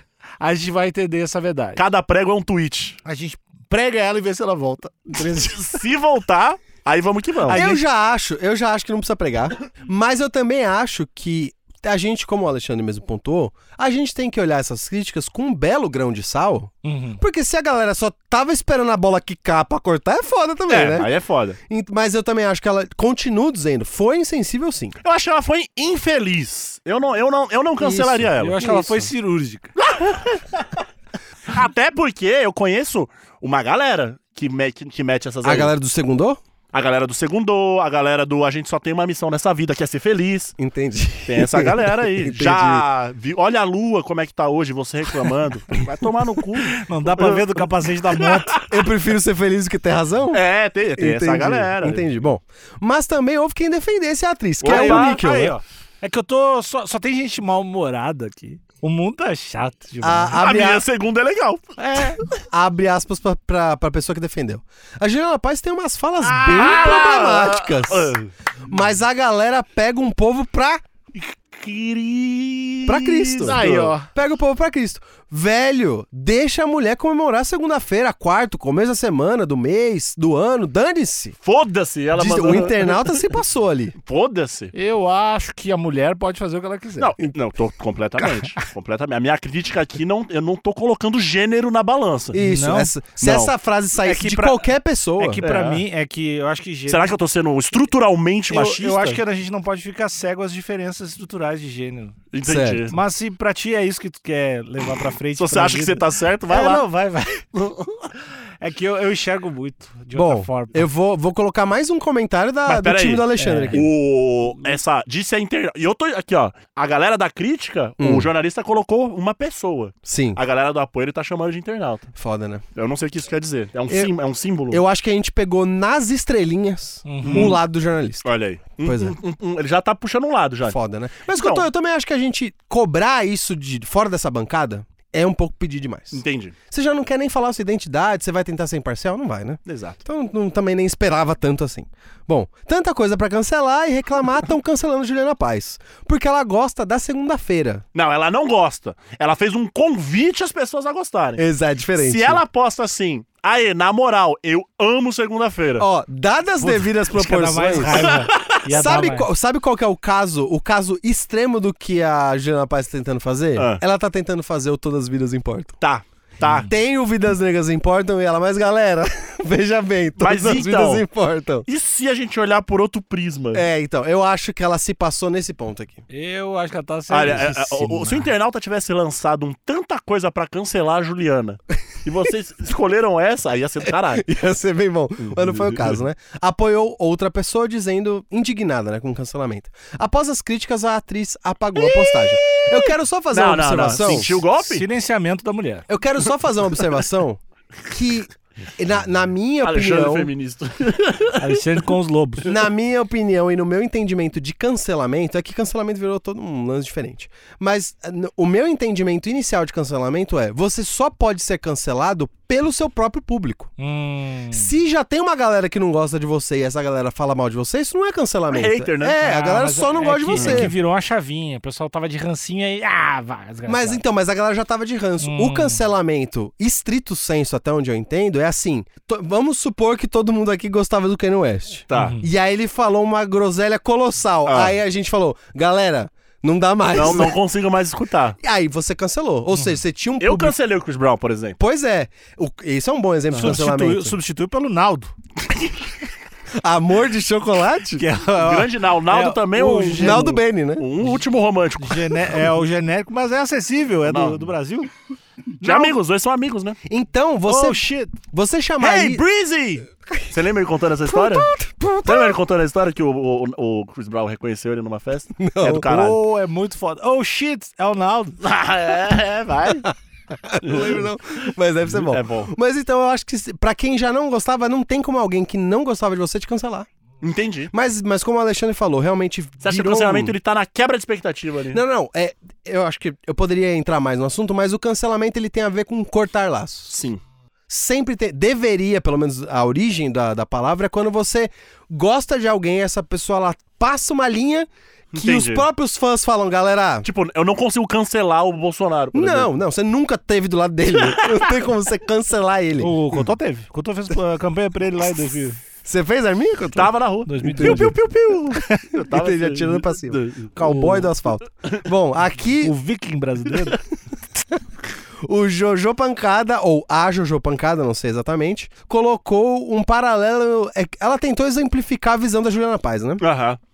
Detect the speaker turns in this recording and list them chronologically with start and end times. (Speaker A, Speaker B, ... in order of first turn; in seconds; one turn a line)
Speaker A: 0.4-1.8
Speaker B: 1.8-3.0
Speaker A: 3.0-5.8
Speaker B: 5.2-7.6
Speaker A: 7.5-7.8
Speaker C: 7.5-21.1
Speaker A: 16.8-17.2
Speaker B: 20.7-21.6
Speaker C: 21.7-24.9
Speaker B: 25.0-28.6
Speaker C: 27.8-29.1
Speaker A: 28.4-29.7
Speaker B: 29.8-30.8
Speaker B: 31.5-35.7
Speaker C: 35.4-36.4
Speaker B: 36.7-40.5
Speaker C: 40.6-42.8
Speaker B: 41.2-48.9
Speaker A: 46.7-48.6
Speaker C: 48.7-50.4
Speaker B: 50.3-52.0
Speaker C: 51.0-55.5
Speaker B: 54.6-55.2
Speaker A: 54.6-60.4
Speaker C: 60.0-60.9
Speaker B: 60.4-61.7
Speaker A: 61.8-62.2
Speaker C: 62.5-68.2
Speaker A: 66.2-67.1
Speaker B: 66.3-68.3
Speaker C: 68.7-70.8
Speaker B: 71.1-74.0
Speaker C: 72.8-81.3
Speaker A: 73.4-74.1
Speaker B: 81.4-83.2
Speaker C: 82.1-83.9
Speaker B: 84.0-84.7
Speaker A: 84.7-87.1
Speaker B: 87.0-92.4
Speaker C: 92.3-95.4
Speaker A: 92.4-92.9
Speaker B: 93.2-93.5
Speaker A: 94.0-97.1
Speaker B: 95.4-95.8
Speaker B: 96.9-99.2
Speaker A: 98.5-102.2
Speaker B: 102.3-102.9
Speaker C: 102.4-102.9
Speaker A: 102.9-107.4
Speaker B: 105.4-106.8
Speaker B: 107.5-108.1
Speaker A: 108.6-110.9
Speaker C: 110.1-113.9
Speaker B: 112.7-122.1
Speaker A: 113.4-113.8
Speaker C: 118.0-118.3
Speaker C: 120.0-120.4
Speaker C: 122.2-122.6
Speaker B: 122.7-124.8
Speaker C: 124.7-128.2
Speaker A: 127.0-127.6
Speaker B: 127.2-127.6
Speaker B: 128.2-130.8
Speaker C: 128.8-129.2
Speaker C: 130.7-147.8
Speaker B: 131.3-131.7
Speaker B: 136.1-136.5
Speaker B: 139.7-140.0
Speaker B: 147.9-151.4
Speaker C: 151.4-152.4
Speaker B: 151.9-155.8
Speaker C: 155.8-158.1
Speaker A: 156.6-159.3
Speaker B: 158.0-158.5
Speaker C: 158.7-165.8
Speaker B: 165.8-166.7
Speaker A: 166.4-166.7
Speaker C: 166.6-171.7
Speaker B: 170.2-171.0
Speaker B: 171.7-173.7
Speaker C: 173.5-176.0
Speaker A: 176.1-178.3
Speaker B: 177.1-184.2
Speaker C: 183.8-194.4
Speaker B: 185.2-186.0
Speaker B: 191.8-194.8
Speaker A: 194.6-195.8
Speaker C: 195.9-200.3
Speaker B: 199.6-201.6
Speaker A: 201.4-202.5
Speaker C: 202.4-213.7
Speaker A: 213.8-214.7
Speaker C: 214.5-220.7
Speaker B: 218.5-219.2
Speaker A: 219.2-224.0
Speaker B: 220.3-220.7
Speaker C: 223.7-237.3
Speaker A: 225.2-225.8
Speaker B: 231.9-232.2
Speaker A: 231.9-232.3
Speaker B: 234.4-234.7
Speaker B: 236.9-238.4
Speaker C: 238.4-240.6
Speaker A: 239.5-239.8
Speaker B: 240.2-241.6
Speaker C: 241.6-244.1
Speaker A: 243.3-245.1
Speaker C: 246.6-248.1
Speaker A: 247.9-250.4
Speaker B: 248.3-252.4
Speaker C: 249.9-250.9
Speaker A: 251.8-254.9
Speaker B: 254.1-254.5
Speaker B: 255.6-256.8
Speaker A: 255.7-255.9
Speaker C: 256.9-259.2
Speaker A: 257.4-258.1
Speaker B: 258.8-261.5
Speaker C: 261.0-262.4
Speaker B: 262.0-266.2
Speaker C: 265.4-265.9
Speaker A: 265.8-268.4
Speaker B: 268.4-269.9
Speaker C: 270.3-276.9
Speaker B: 270.6-271.0
Speaker B: 271.9-272.5
Speaker B: 277.2-277.7
Speaker C: 277.7-280.4
Speaker B: 279.6-281.8
Speaker C: 281.7-286.9
Speaker B: 286.9-287.2
Speaker C: 287.7-297.1
Speaker B: 295.1-295.7
Speaker B: 297.0-299.5
Speaker C: 299.1-302.9
Speaker B: 301.0-301.5
Speaker A: 302.8-305.6
Speaker C: 305.8-306.9
Speaker B: 306.7-310.9
Speaker A: 307.2-308.0
Speaker C: 307.4-307.9
Speaker A: 308.5-308.9
Speaker C: 309.1-312.7
Speaker A: 310.6-311.0
Speaker A: 312.6-313.8
Speaker C: 315.2-323.2
Speaker B: 323.2-323.6